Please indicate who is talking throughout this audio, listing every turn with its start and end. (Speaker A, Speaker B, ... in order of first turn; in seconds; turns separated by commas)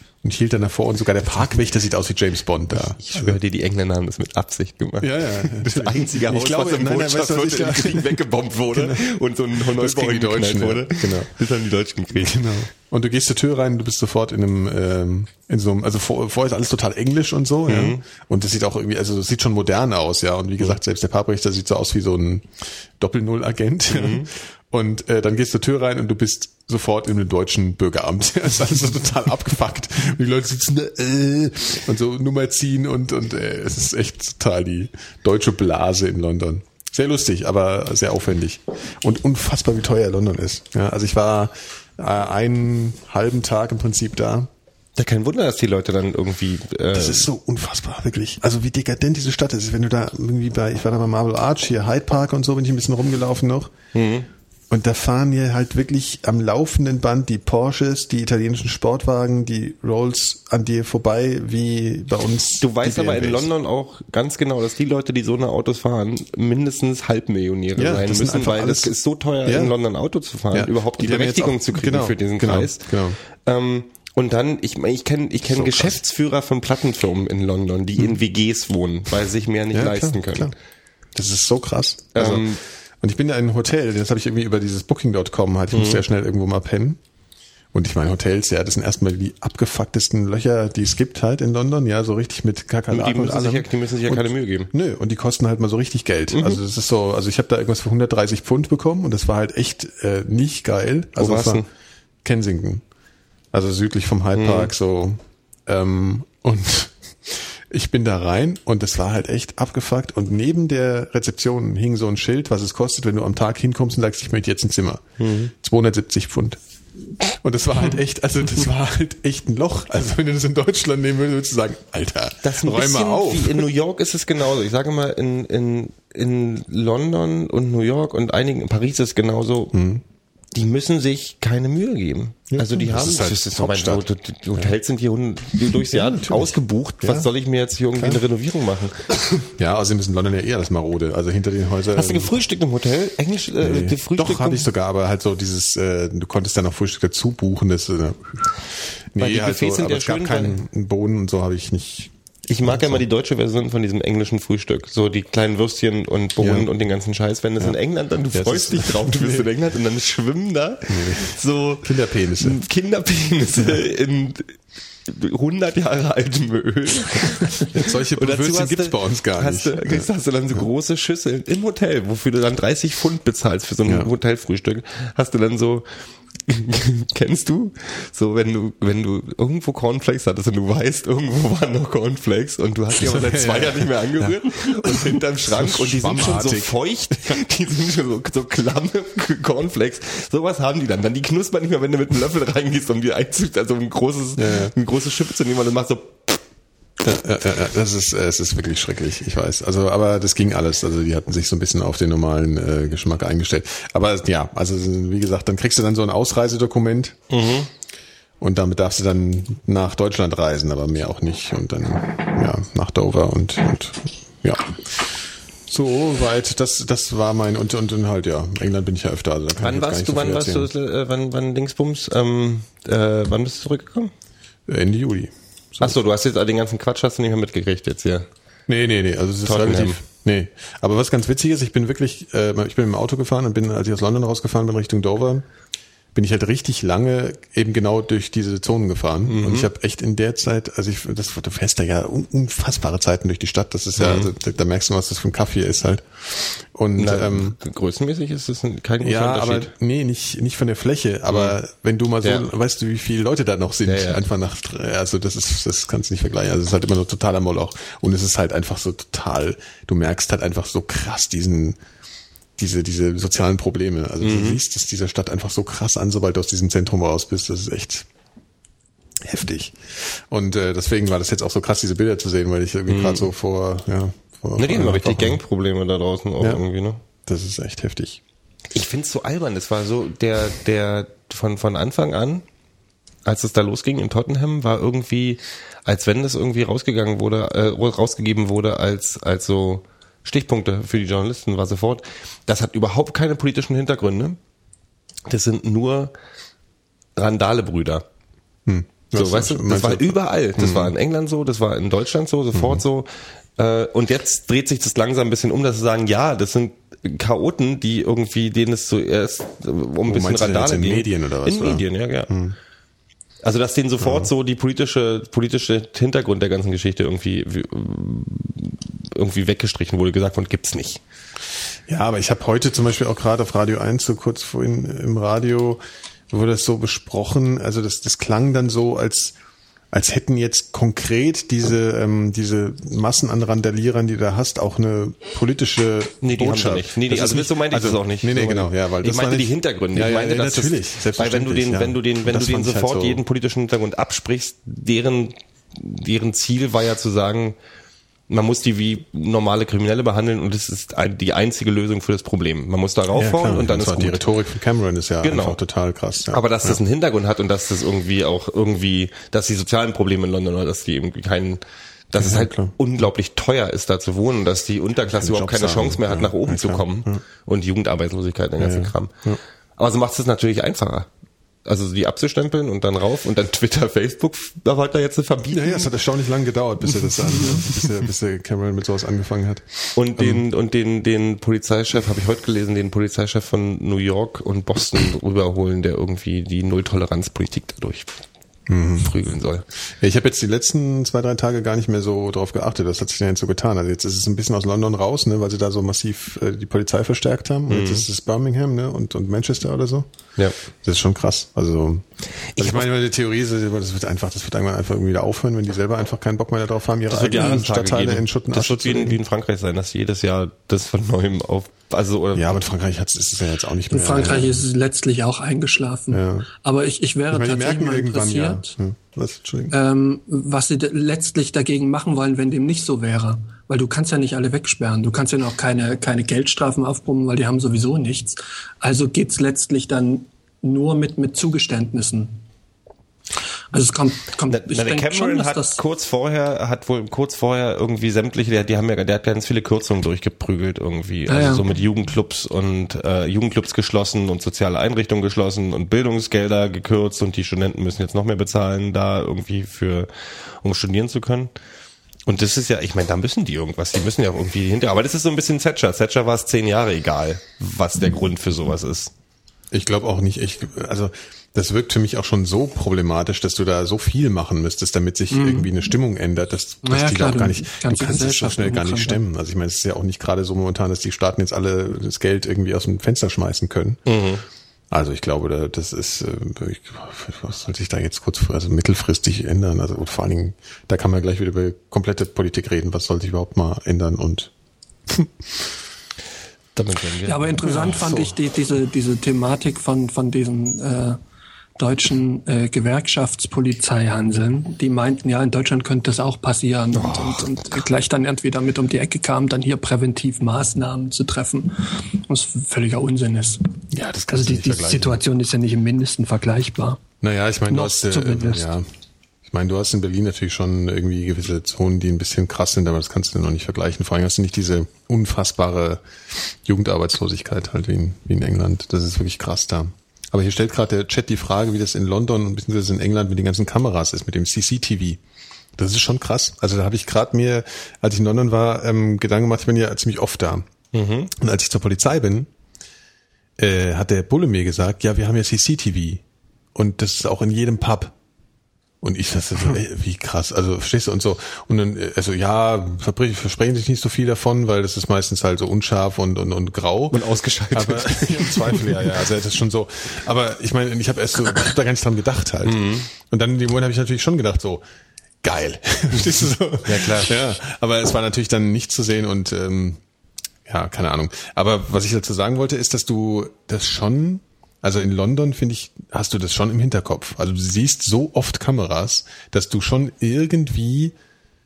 Speaker A: 0.2-3.4, Speaker B: 2.9-12.6, Speaker A: 5.0-11.4, Speaker A: 12.1-44.5, Speaker B: 17.7-18.0, Speaker B: 23.9-24.3, Speaker B: 45.0-47.3, Speaker A: 46.9-53.7, Speaker B: 53.9-54.3, Speaker A: 54.7-63.5, Speaker B: 62.6-80.5, Speaker A: 67.8-69.8, Speaker A: 70.5-73.2, Speaker A: 75.5-76.0, Speaker A: 79.7-80.5, Speaker A: 81.2-82.5, Speaker B: 82.1-82.6, Speaker A: 83.0-87.0, Speaker B: 85.7-86.0, Speaker A: 87.7-101.7, Speaker B: 92.9-94.7, Speaker B: 96.3-96.6, Speaker B: 101.2-101.7, Speaker A: 102.2-102.8, Speaker A: 103.5-116.6, Speaker B: 104.3-104.7, Speaker B: 115.2-115.5, Speaker A: 117.2-123.7, Speaker B: 122.4-129.7, Speaker A: 129.7-130.0, Speaker B: 130.5-139.2, Speaker A: 132.5-134.1, Speaker A: 135.7-137.3, Speaker A: 137.9-138.2, Speaker A: 139.5-142.4, Speaker B: 141.9-144.7, Speaker A: 143.6-148.5, Speaker A: 149.1-153.1, Speaker B: 149.2-150.6, Speaker B: 152.5-175.9, Speaker A: 156.4-156.7, Speaker A: 158.3-159.5, Speaker A: 160.9-162.6, Speaker A: 167.7-170.6, Speaker A: 173.8-174.1, Speaker B: 176.5-196.4, Speaker A: 183.0-187.4, Speaker A: 194.4-194.7, Speaker A: 197.0-207.2, Speaker B: 207.3-207.7, Speaker A: 208.4-220.7, Speaker B: 219.6-224.1, Speaker A: 224.7-226.0, Speaker B: 225.8-228.3, Speaker A: 228.7-235.5, Speaker B: 229.4-230.0, Speaker A: 236.2-247.6, Speaker B: 239.3-239.7, Speaker B: 244.0-244.3, Speaker B: 247.0-249.7, Speaker A: 249.0-261.8, Speaker B: 251.3-251.6, Speaker B: 253.8-254.2, Speaker A: 262.6-268.1, Speaker B: 264.2-264.6, Speaker A: 269.2-275.4, Speaker B: 272.9-273.3, Speaker B: 274.6-277.0, Speaker A: 277.2-278.2, Speaker B: 278.7-282.4, Speaker B: 283.2-294.4, Speaker B: 295.3-296.1, Speaker B: 297.2-298.1, Speaker A: 298.7-300.9, Speaker B: 299.1-312.3, Speaker A: 302.5-302.8, Speaker A: 310.1-312.6, Speaker B: 313.4-321.0, Speaker A: 314.0-314.3, Speaker A: 321.9-329.4, Speaker A: 329.9-343.2, Speaker B: 336.2-347.6, Speaker B: 348.3-354.2, Speaker A: 353.1-356.8, Speaker B: 355.2-355.6, Speaker B: 356.3-369.1, Speaker A: 362.2-362.7, Speaker A: 365.1-367.2, Speaker A: 368.6-369.4, Speaker B: 369.8-371.1, Speaker B: 371.6-375.9, Speaker A: 375.5-380.4, Speaker B: 379.9-388.2, Speaker A: 388.7-389.1, Speaker B: 389.0-389.6, Speaker A: 390.0-400.1, Speaker B: 397.7-398.1, Speaker A: 400.8-409.2, Speaker B: 402.6-402.9, Speaker B: 407.1-412.6, Speaker A: 412.3-414.6, Speaker C: 413.9-418.7, Speaker A: 416.1-416.5, Speaker A: 417.3-419.8, Speaker C: 419.7-432.4, Speaker C: 433.7-435.8, Speaker B: 434.5-451.5, Speaker C: 441.3-441.6, Speaker B: 452.3-459.1, Speaker A: 459.7-474.0, Speaker C: 465.3-465.7, Speaker C: 466.8-469.2, Speaker B: 474.1-474.4, Speaker A: 474.9-484.5, Speaker A: 485.1-485.7, Speaker B: 486.8-488.0, Speaker C: 487.3-491.2, Speaker A: 487.6-488.2, Speaker C: 491.8-503.7, Speaker B: 496.9-497.8, Speaker A: 503.9-505.2, Speaker C: 504.3-507.0, Speaker A: 507.2-508.9, Speaker C: 507.7-508.7, Speaker A: 509.5-525.2, Speaker A: 525.8-530.7, Speaker B: 530.9-531.3, Speaker A: 531.3-532.5, Speaker A: 533.6-536.2, Speaker A: 536.8-538.1, Speaker A: 539.0-547.2, Speaker B: 547.1-549.2, Speaker A: 547.7-554.8, Speaker B: 552.6-553.1, Speaker A: 555.4-560.0, Speaker B: 556.8-557.4, Speaker A: 560.7-571.1